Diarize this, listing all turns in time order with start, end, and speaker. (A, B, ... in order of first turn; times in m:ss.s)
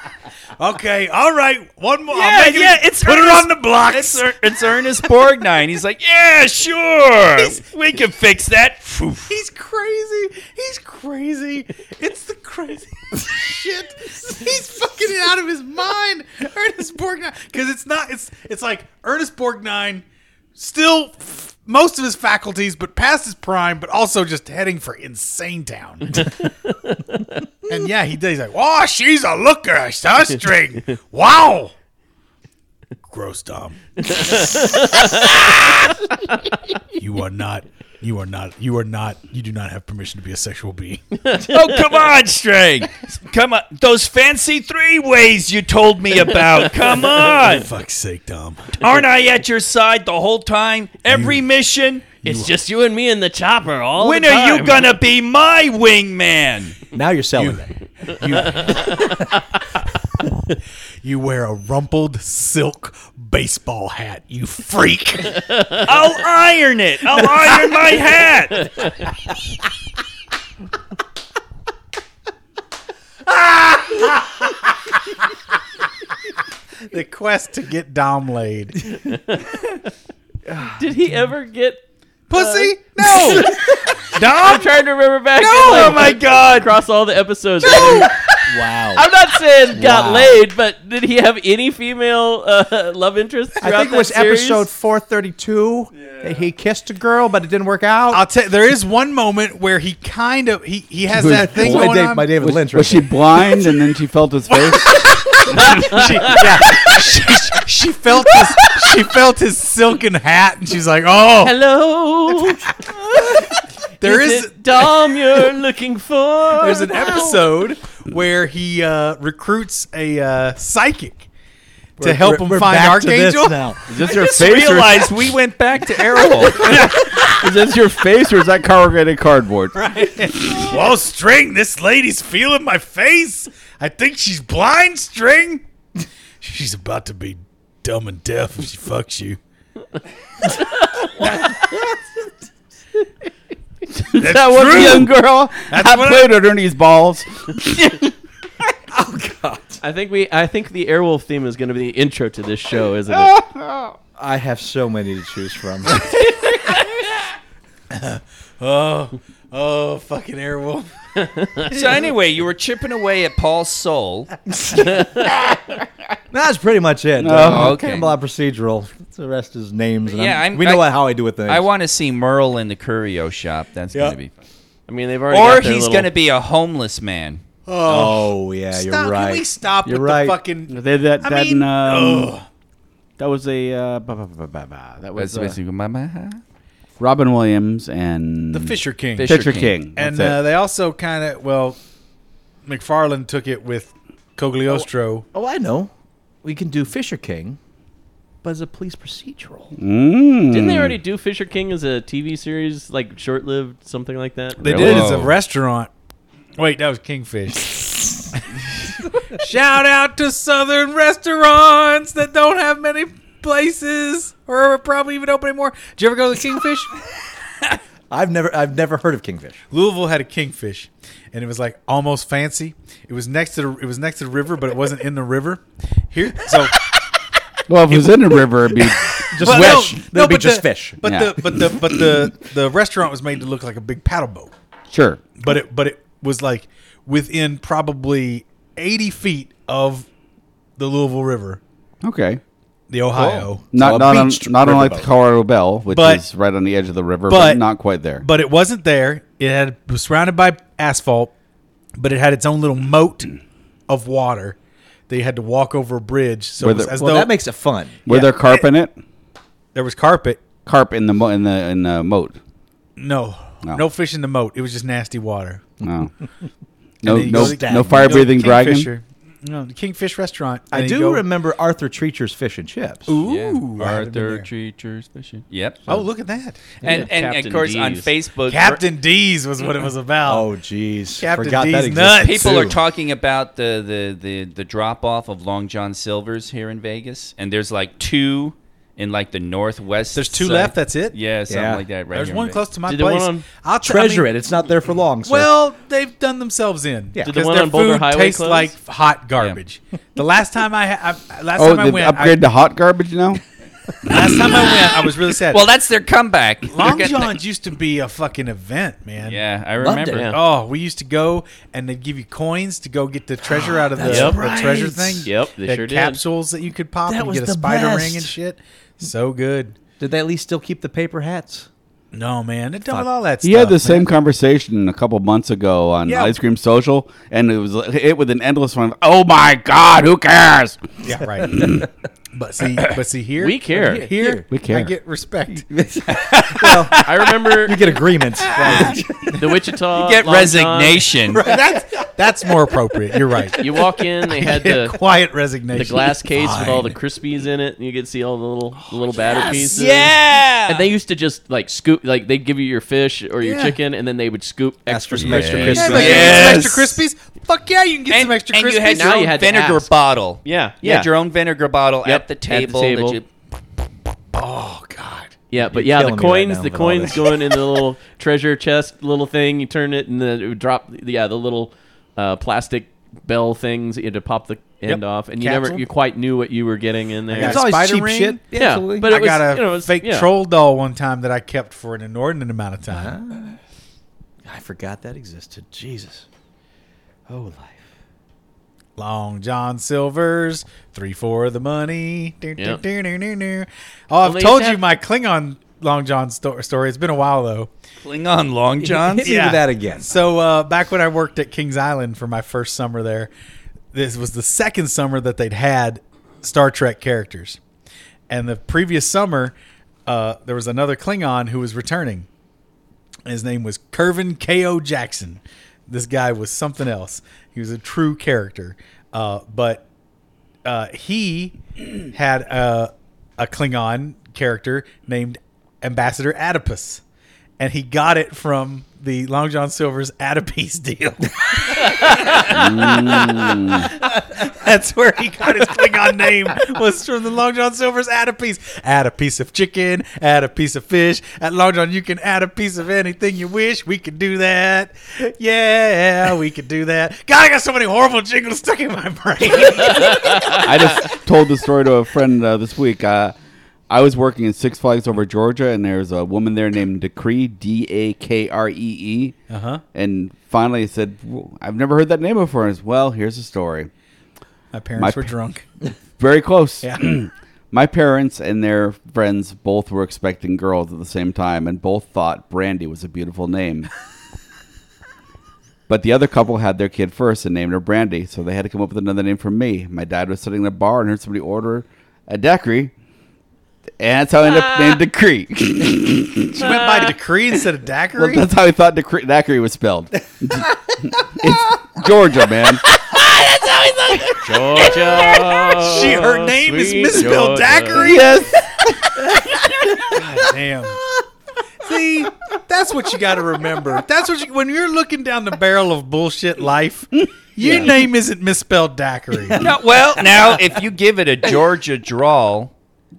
0:00.6-0:04.3 A
0:02.1-0:09.3 B
0:09.3-0:20.0 A
0:20.5-0:26.4 A
0:27.6-0:31.7 A
0:33.1-0:35.0 A
0:34.0-0:35.7 C
0:37.0-0:41.0 A
0:41.2-0:41.8 C
0:41.4-0:47.7 B
0:47.3-0:48.8 A
0:48.8-0:52.0 B
0:51.1-0:51.4 A
0:52.2-0:52.5 A
0:52.2-0:54.9 C
0:54.0-0:56.8 B
0:56.9-0:57.7 D
0:57.4-0:59.0 A
1:01.0-1:05.8 A
1:05.8-1:08.7 B
1:07.3-1:07.8 A
1:13.2-1:15.3 A
1:16.8-1:19.0 A
1:19.0-1:19.5 C
1:20.7-1:21.8 C
1:22.3-1:24.7 A
1:22.3-1:28.2 C
1:25.4-1:26.7 B
1:27.7-1:28.1 A
1:28.4-1:29.0 D
1:28.9-1:34.6 C
1:29.8-1:30.3 D
1:33.6-1:38.2 D
1:38.1-1:42.3 A
1:41.1-1:45.8 E
1:41.6-1:43.1 D
1:44.5-1:51.5 A
1:45.6-1:46.5 C
1:46.4-1:46.6 D
1:48.4-1:48.7 C
1:51.4-1:57.4 C
1:52.5-1:53.5 A
1:54.0-1:54.8 A
1:56.6-2:01.3 A
2:02.0-2:03.8 D
2:02.0-2:03.6 A
2:03.9-2:05.1 E
2:03.9-2:06.7 B
2:06.5-2:09.8 E
2:06.6-2:07.3 A
2:09.7-2:15.6 A
2:10.4-2:10.7 E
2:16.4-2:19.4 A
2:20.6-2:21.7 C
2:24.0-2:28.1 E
2:24.2-2:26.4 A
2:28.9-2:29.8 D
2:29.8-2:33.4 C
2:33.1-2:34.0 E
2:34.2-2:36.2 D
2:37.9-2:40.9 A
2:41.2-2:41.7 C
2:41.7-2:44.3 B
2:44.6-2:44.9 D
2:46.3-2:51.6 D
2:47.2-2:47.8 E
2:47.3-2:48.1 B
2:50.1-2:50.9 B
2:51.4-2:54.3 B
2:54.9-2:56.1 C
2:55.3-2:57.4 B
2:57.7-3:02.4 A
2:57.8-3:00.4 D
3:00.7-3:02.3 E
3:03.2-3:05.6 E
3:05.2-3:06.4 B
3:07.0-3:10.4 E
3:08.5-3:09.3 A
3:09.1-3:09.8 B
3:10.0-3:11.8 A
3:12.6-3:15.2 A
3:14.7-3:15.9 D
3:16.4-3:17.6 D
3:18.4-3:19.7 D
3:19.8-3:21.0 E
3:20.5-3:24.9 C
3:24.6-3:25.9 A
3:24.6-3:25.2 E
3:24.7-3:25.3 B
3:26.6-3:36.9 A
3:38.1-3:39.6 D
3:39.7-3:46.8 A
3:47.7-3:49.8 E
3:49.3-3:54.5 A
3:49.3-3:51.0 D
3:51.0-3:52.3 E
3:54.9-3:55.3 E
3:55.4-4:00.1 A
4:00.8-4:01.6 A
4:02.0-4:02.4 E
4:02.9-4:03.7 A
4:03.2-4:08.2 E
4:03.7-4:05.1 D
4:05.9-4:06.2 A
4:07.3-4:07.6 A
4:08.2-4:11.3 A
4:12.0-4:13.3 A
4:13.9-4:14.6 A
4:15.1-4:17.3 A
4:16.6-4:16.9 E
4:16.9-4:18.3 D
4:18.0-4:19.0 E
4:18.1-4:18.6 A
4:19.7-4:20.5 A
4:20.6-4:22.4 E
4:23.0-4:25.8 A
4:25.8-4:26.1 E
4:27.0-4:28.9 E
4:27.0-4:31.2 A
4:27.3-4:28.3 D
4:30.7-4:33.1 D
4:33.1-4:34.5 A
4:33.2-4:35.8 B
4:35.9-4:36.8 A
4:36.8-4:37.1 D
4:36.8-4:38.8 B
4:36.8-4:38.1 C
4:38.5-4:40.5 A
4:40.2-4:42.8 D
4:41.2-4:42.7 A
4:42.2-4:52.6 B
4:50.1-4:51.2 A
4:51.5-4:51.8 D
4:52.1-4:54.3 A
4:52.8-4:53.4 C
4:53.8-4:55.5 D
4:55.3-5:02.4 A
4:57.2-4:58.7 C
5:01.6-5:03.4 E
5:04.0-5:05.7 A
5:04.4-5:07.4 B
5:06.7-5:19.8 A
5:09.2-5:10.3 B
5:09.8-5:10.1 D
5:10.1-5:10.4 C
5:13.4-5:15.3 D
5:14.0-5:14.4 C
5:15.2-5:16.2 C
5:17.0-5:18.3 D
5:20.0-5:21.7 D
5:22.1-5:24.1 A
5:23.4-5:30.8 E
5:26.1-5:26.3 D
5:31.0-5:31.8 D
5:31.1-5:31.8 A
5:32.3-5:37.3 A
5:33.4-5:34.1 C
5:33.9-5:34.4 D
5:34.5-5:34.9 E
5:35.5-5:39.3 D
5:37.0-5:38.0 C
5:38.5-5:39.2 A
5:38.6-5:41.1 C
5:39.9-5:41.5 B
5:41.3-5:43.7 A
5:43.6-5:45.0 C
5:44.2-5:46.9 A
5:45.7-5:56.6 C
5:48.8-5:49.9 A
5:49.7-5:50.9 B
5:53.4-5:53.8 A
5:54.9-5:56.9 D
5:55.2-5:56.9 B
5:55.7-5:59.0 A
5:58.1-6:03.3 B
5:58.8-5:59.9 C
6:00.4-6:01.1 C
6:02.0-6:03.2 C
6:04.3-6:05.3 A
6:05.5-6:17.7 C
6:05.6-6:07.4 D
6:14.9-6:15.8 D
6:17.3-6:18.4 A
6:17.4-6:19.1 D
6:18.5-6:20.3 C
6:19.1-6:23.2 A
6:22.9-6:23.6 D
6:24.4-6:26.2 D
6:27.3-6:27.9 D
6:29.0-6:37.7 A
6:34.2-6:34.8 C
6:38.0-6:39.3 B
6:39.0-6:40.1 D
6:39.2-6:43.3 A
6:43.9-6:47.6 A
6:48.3-6:49.5 A
6:50.0-6:52.3 A
6:53.2-6:59.9 A
7:00.6-7:01.6 A
7:02.1-7:07.0 A
7:07.6-7:31.2 A
7:12.5-7:13.9 E
7:30.6-7:33.4 E
7:33.9-7:39.4 E
7:39.5-7:39.8 A
7:39.9-7:43.9 E
7:44.7-7:45.7 A
7:45.0-7:45.3 E
7:46.2-7:53.9 E
7:55.9-8:02.9 E
8:04.0-8:06.6 E
8:06.5-8:08.5 A
8:08.2-8:12.8 E
8:14.2-8:18.5 A
8:14.4-8:18.2 C
8:17.9-8:18.8 E
8:19.2-8:21.0 A
8:21.8-8:29.7 A
8:29.6-8:32.7 B